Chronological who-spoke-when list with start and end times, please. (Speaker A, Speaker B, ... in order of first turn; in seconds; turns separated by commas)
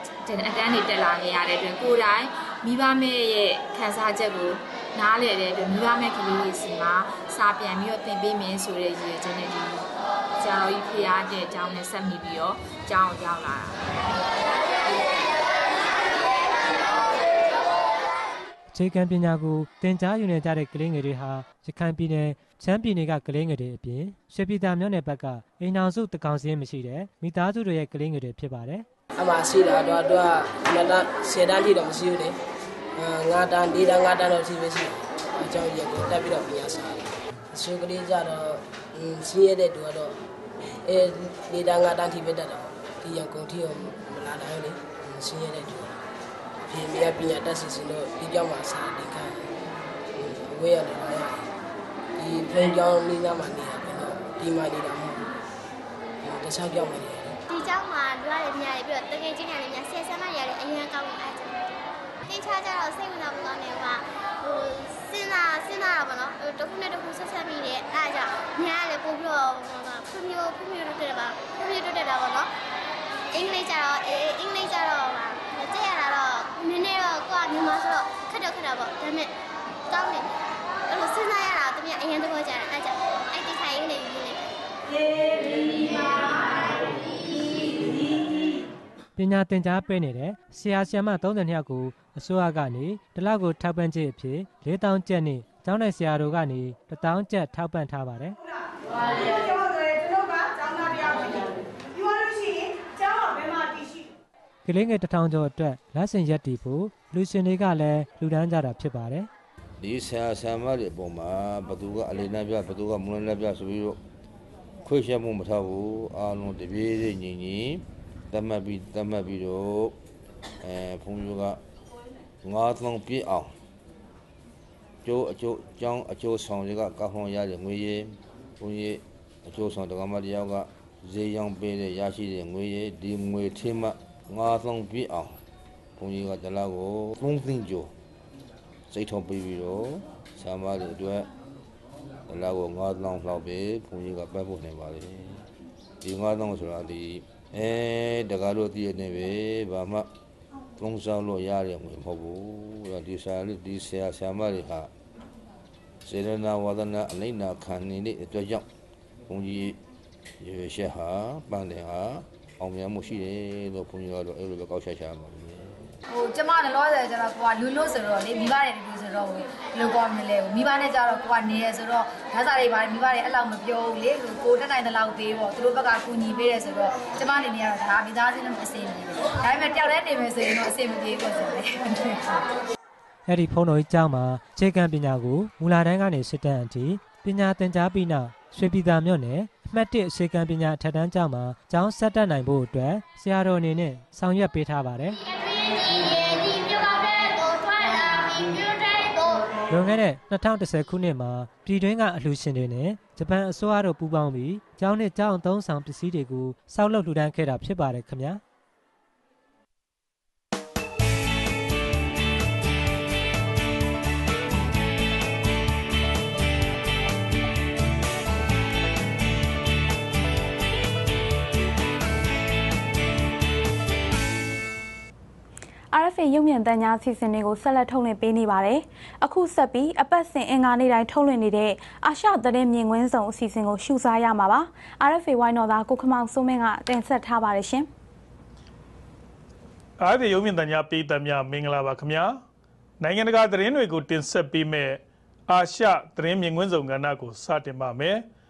Speaker A: 0.2-9.9, Speaker A: 10.4-13.8, Speaker B: 18.7-28.9, Speaker C: 29.1-32.3, Speaker C: 32.9-40.2, Speaker C: 40.8-46.0, Speaker C: 46.7-49.5, Speaker C: 50.1-51.5, Speaker C: 52.1-55.3, Speaker C: 56.2-57.4, Speaker D: 57.5-61.7, Speaker D: 62.3-72.5, Speaker D: 73.3-79.3, Speaker D: 79.9-80.3, Speaker D: 80.9-84.4, Speaker B: 89.2-98.3, Speaker B: 104.6-109.3, Speaker E: 109.8-114.0, Speaker E: 114.8-120.0, Speaker E: 120.6-121.6, Speaker E: 122.4-123.5, Speaker E: 125.0-135.4, Speaker E: 136.0-137.9, Speaker E: 138.9-141.3, Speaker E: 142.3-145.4, Speaker E: 146.0-150.1, Speaker E: 150.8-154.9, Speaker E: 156.0-158.7, Speaker E: 159.3-159.8, Speaker E: 160.4-165.9, Speaker F: 166.1-182.4, Speaker B: 183.3-195.2, Speaker D: 195.7-199.3, Speaker B: 199.7-208.4, Speaker G: 225.9-237.9, Speaker H: 240.0-242.4, Speaker H: 243.0-248.2